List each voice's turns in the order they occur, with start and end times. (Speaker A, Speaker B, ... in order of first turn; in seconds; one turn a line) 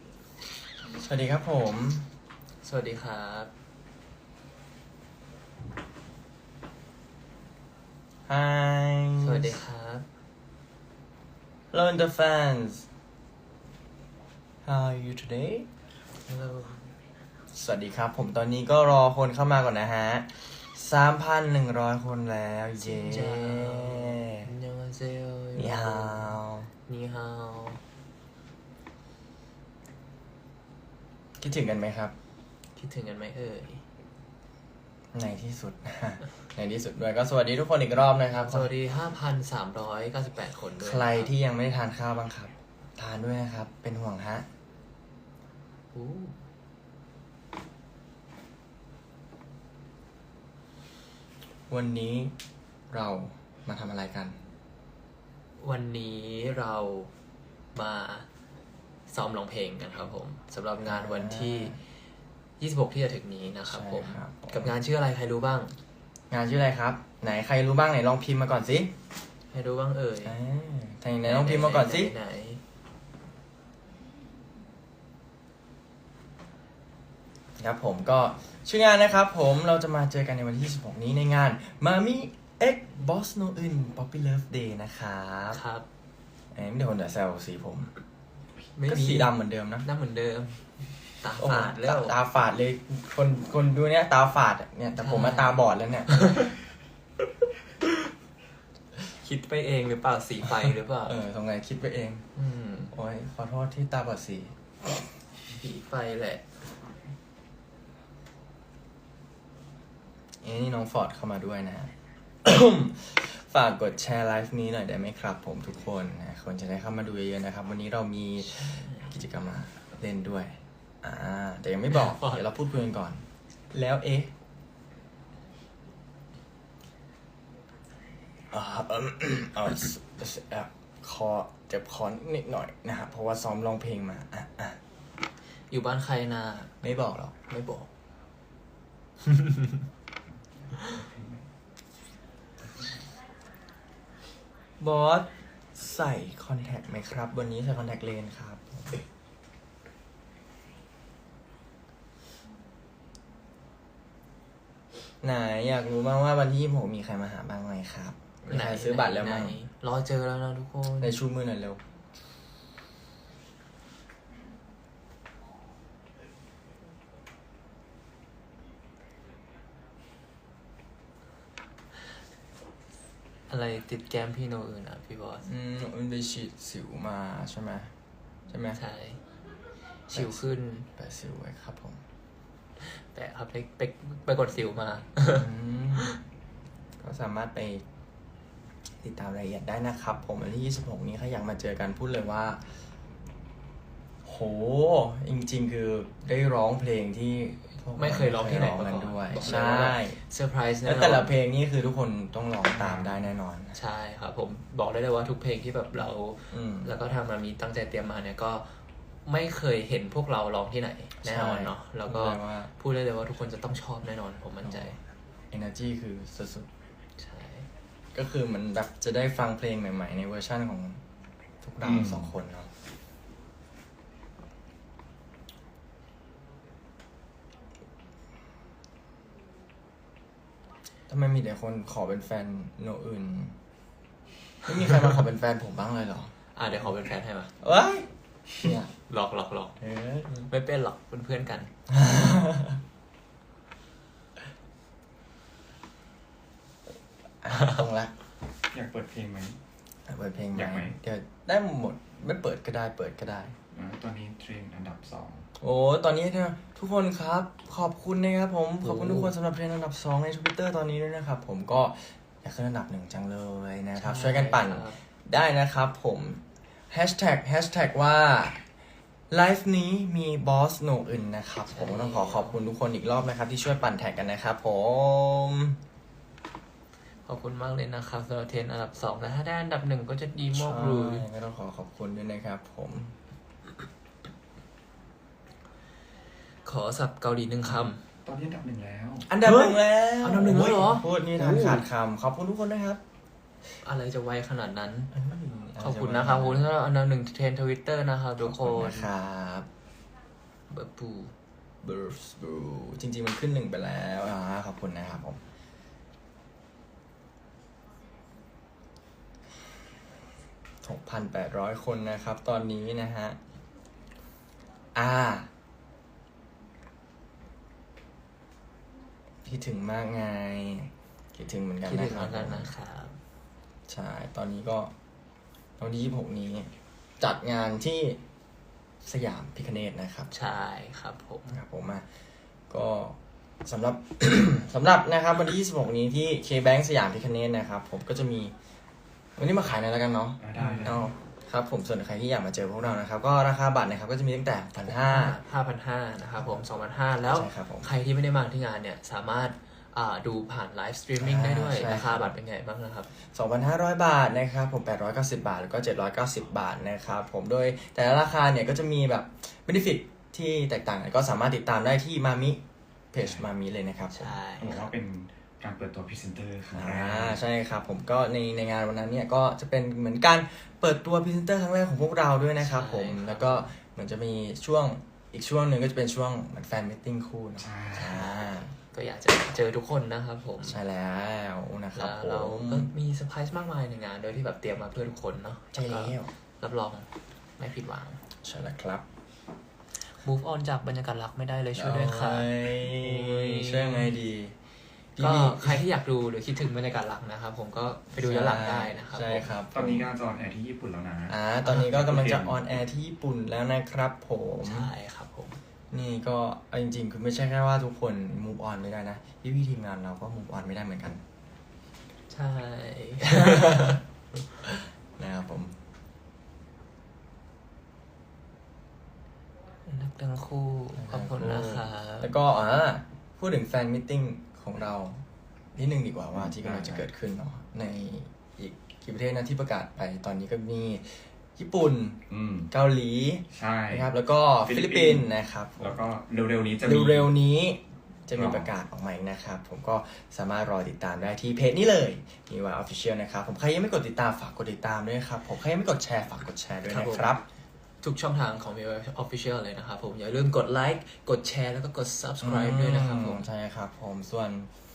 Speaker A: 1.0-2.0
Speaker B: 2.6-3.5
Speaker A: 8.3-9.6
Speaker B: 9.2-10.1
Speaker A: 11.7-12.8
Speaker A: 14.6-15.7
Speaker B: 16.3-16.9
Speaker A: 17.5-24.5
Speaker B: 22.8-27.8
Speaker A: 25.6-26.7
Speaker A: 31.4-32.1
Speaker B: 32.8-33.8
Speaker A: 35.1-38.7
Speaker B: 38.3-41.3
Speaker A: 40.8-44.5
Speaker B: 45.9-46.4
Speaker A: 51.7-52.3
Speaker A: 52.9-54.4
Speaker B: 55.6-57.1
Speaker B: 57.7-58.3
Speaker B: 59.1-61.8
Speaker A: 60.8-61.8
Speaker B: 62.6-65.7
Speaker A: 63.6-64.7
Speaker A: 66.3-68.9
Speaker B: 69.5-70.4
Speaker A: 70.2-72.1
Speaker B: 71.2-72.6
Speaker A: 77.6-85.6
Speaker B: 85.5-85.8
Speaker A: 86.5-87.9
Speaker B: 88.8-89.3
Speaker A: 88.9-89.9
Speaker B: 89.8-90.6
Speaker B: 91.2-92.2
Speaker A: 91.4-96.5
Speaker B: 95.0-96.5
Speaker B: 99.0-101.2
Speaker A: 101.0-102.2
Speaker B: 102.3-102.9
Speaker A: 102.9-104.5
Speaker B: 105.6-106.5
Speaker A: 110.4-111.9
Speaker A: 112.4-124.3
Speaker B: 118.4-119.2
Speaker B: 121.9-122.4
Speaker A: 128.5-134.8
Speaker B: 135.7-136.8
Speaker A: 136.8-137.3
Speaker B: 137.4-137.9
Speaker B: 139.2-139.8
Speaker C: 140.8-141.4
Speaker A: 144.8-149.0
Speaker A: 155.2-159.6
Speaker B: 158.5-161.2
Speaker A: 161.0-161.8
Speaker B: 173.5-175.5
Speaker A: 175.4-177.9
Speaker A: 178.5-178.8
Speaker B: 178.7-179.2
Speaker B: 180.1-180.9
Speaker A: 180.1-180.4
Speaker A: 181.0-182.0
Speaker B: 182.8-186.2
Speaker A: 185.3-186.1
Speaker A: 187.0-187.8
Speaker A: 189.0-192.6
Speaker A: 194.2-200.2
Speaker B: 197.9-201.3
Speaker A: 200.8-203.8
Speaker C: 202.7-203.2
Speaker B: 203.7-208.6
Speaker A: 206.5-206.9
Speaker B: 209.2-215.0
Speaker A: 211.2-212.7
Speaker A: 214.6-215.0
Speaker A: 215.5-216.7
Speaker B: 217.2-217.7
Speaker A: 218.1-221.0
Speaker A: 221.6-222.7
Speaker C: 221.8-222.3
Speaker A: 231.1-233.6
Speaker A: 234.6-236.3
Speaker B: 236.5-237.5
Speaker A: 237.6-238.1
Speaker A: 238.6-238.9
Speaker B: 239.1-239.8
Speaker A: 239.8-240.3
Speaker B: 240.3-241.7
Speaker A: 241.9-242.8
Speaker A: 247.4-248.1
Speaker C: 248.7-249.6
Speaker A: 250.1-253.5
Speaker C: 250.5-250.9
Speaker C: 253.7-255.4
Speaker A: 255.6-268.6
Speaker B: 258.8-259.3
Speaker B: 263.9-265.0
Speaker A: 269.3-275.8
Speaker B: 271.7-272.6
Speaker B: 277.2-281.3
Speaker A: 280.5-283.1
Speaker B: 286.6-288.0
Speaker C: 288.2-289.3
Speaker A: 289.3-293.0
Speaker B: 289.4-291.8
Speaker B: 293.8-295.1
Speaker A: 295.1-296.7
Speaker B: 295.8-299.1
Speaker A: 298.4-299.7
Speaker B: 300.7-301.3
Speaker A: 301.8-305.4
Speaker A: 310.8-313.4
Speaker A: 314.9-315.5
Speaker A: 319.4-322.7
Speaker B: 321.9-323.2
Speaker A: 323.9-324.9
Speaker A: 325.8-328.2
Speaker A: 329.0-330.3
Speaker B: 330.3-331.6
Speaker A: 331.5-332.1
Speaker A: 332.7-338.5
Speaker A: 339.4-345.4
Speaker C: 340.4-341.1
Speaker B: 340.6-341.0
Speaker B: 344.8-353.1
Speaker A: 347.2-347.9
Speaker A: 351.2-352.3
Speaker A: 353.3-362.6
Speaker A: 363.1-364.4
Speaker C: 363.2-363.5
Speaker B: 364.1-364.9
Speaker C: 364.6-367.4
Speaker A: 366.7-378.7
Speaker B: 372.6-373.7
Speaker C: 377.6-378.3
Speaker B: 378.9-380.8
Speaker A: 380.6-382.9
Speaker B: 381.9-387.1
Speaker A: 385.7-386.3
Speaker B: 387.6-388.2
Speaker A: 388.4-389.0
Speaker B: 390.1-394.1
Speaker A: 391.7-394.5
Speaker A: 395.1-395.8
Speaker B: 395.2-399.5
Speaker A: 398.1-400.1
Speaker C: 399.7-402.7
Speaker A: 401.3-404.9
Speaker B: 404.6-405.6
Speaker A: 405.9-411.2
Speaker B: 412.3-414.0
Speaker A: 413.2-414.0
Speaker A: 415.2-415.7
Speaker B: 419.9-422.3
Speaker A: 420.9-425.2
Speaker A: 425.7-432.2
Speaker C: 426.4-427.0
Speaker C: 432.3-432.7
Speaker A: 432.7-436.0
Speaker C: 433.5-437.3
Speaker A: 436.8-447.4
Speaker C: 438.4-438.7
Speaker B: 446.9-447.3
Speaker B: 448.0-453.4
Speaker A: 452.4-454.7